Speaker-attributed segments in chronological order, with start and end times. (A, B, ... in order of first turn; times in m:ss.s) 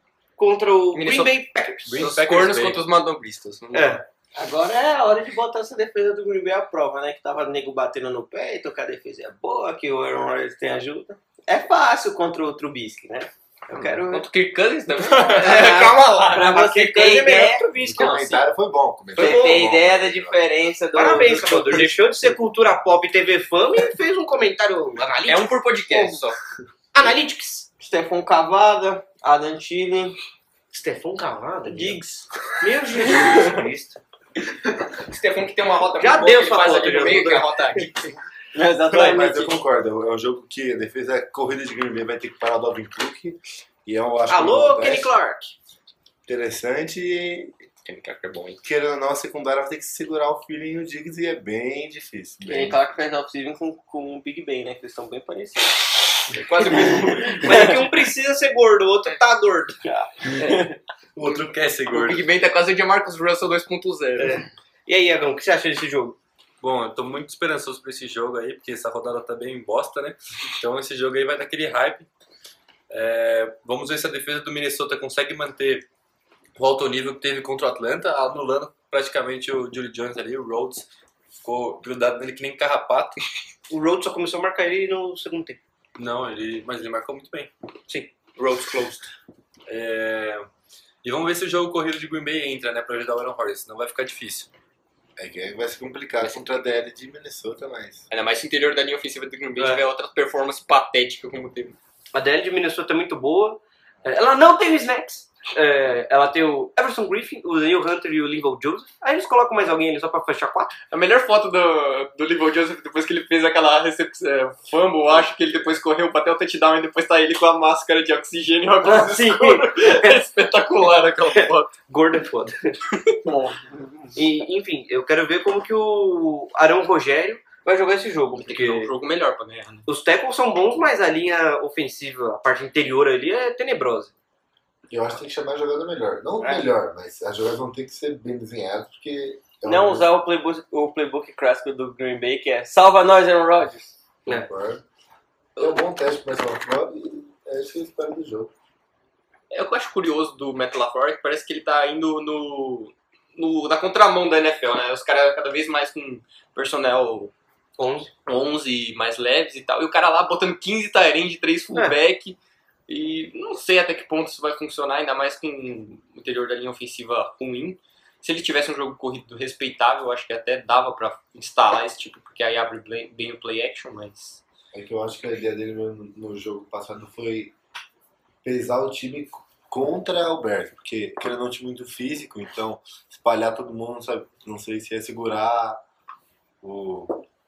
0:00.4-0:02.2 A
0:00.9-0:01.4 B
0:01.8-0:02.8 C
0:02.0-0:04.0 B
0:03.7-0:04.0 A
0:04.4-0:13.3 D
0:13.7-0:14.2 A
0:13.7-0:16.6 B
0:15.1-0:18.4 A
0:16.3-0:17.6 D
0:17.8-0:20.4 E
0:18.0-0:18.2 B
0:19.1-0:19.7 A
0:19.2-0:22.0 D
0:20.9-0:26.1 A
0:25.2-0:26.4 B
0:26.9-0:27.7 A
0:27.8-0:30.2 D
0:30.7-0:32.0 A
0:31.7-0:32.3 D
0:32.6-0:34.0 A
0:34.8-0:38.1 B
0:36.0-0:37.8 A
0:38.5-0:39.6 D
0:38.9-0:45.1 E
0:44.3-0:45.5 A
0:46.2-0:47.5 E
0:47.8-0:48.6 B
0:48.6-0:52.8 E
0:52.5-0:55.9 D
0:56.3-0:57.8 B
0:57.2-0:57.6 D
0:57.4-1:00.0 A
1:00.0-1:00.7 D
1:01.2-1:02.2 C
1:01.9-1:04.4 B
1:04.2-1:06.2 A
1:06.6-1:12.1 C
1:12.9-1:15.8 C
1:16.6-1:20.9 C
1:21.4-1:23.2 C
1:23.7-1:25.6 A
1:26.0-1:27.5 C
1:28.4-1:29.0 B
1:29.7-1:30.5 C
1:31.0-1:34.5 C
1:35.2-1:38.0 E
1:36.2-1:36.5 B
1:38.1-1:41.8 B
1:39.6-1:39.8 A
1:42.1-1:50.7 A
1:50.9-2:01.7 B
1:58.8-2:00.3 A
2:01.3-2:02.7 A
2:03.6-2:04.0 D
2:04.1-2:08.9 A
2:08.4-2:09.8 B
2:09.8-2:14.1 A
2:14.9-2:20.1 E
2:16.4-2:16.7 A
2:19.6-2:23.9 D
2:24.3-2:24.8 E
2:25.6-2:28.5 E
2:29.5-2:37.3 B
2:37.8-2:38.1 A
2:38.2-2:42.4 B
2:42.9-2:54.4 B
2:54.7-2:57.5 E
2:58.4-3:05.8 E
3:06.6-3:07.2 E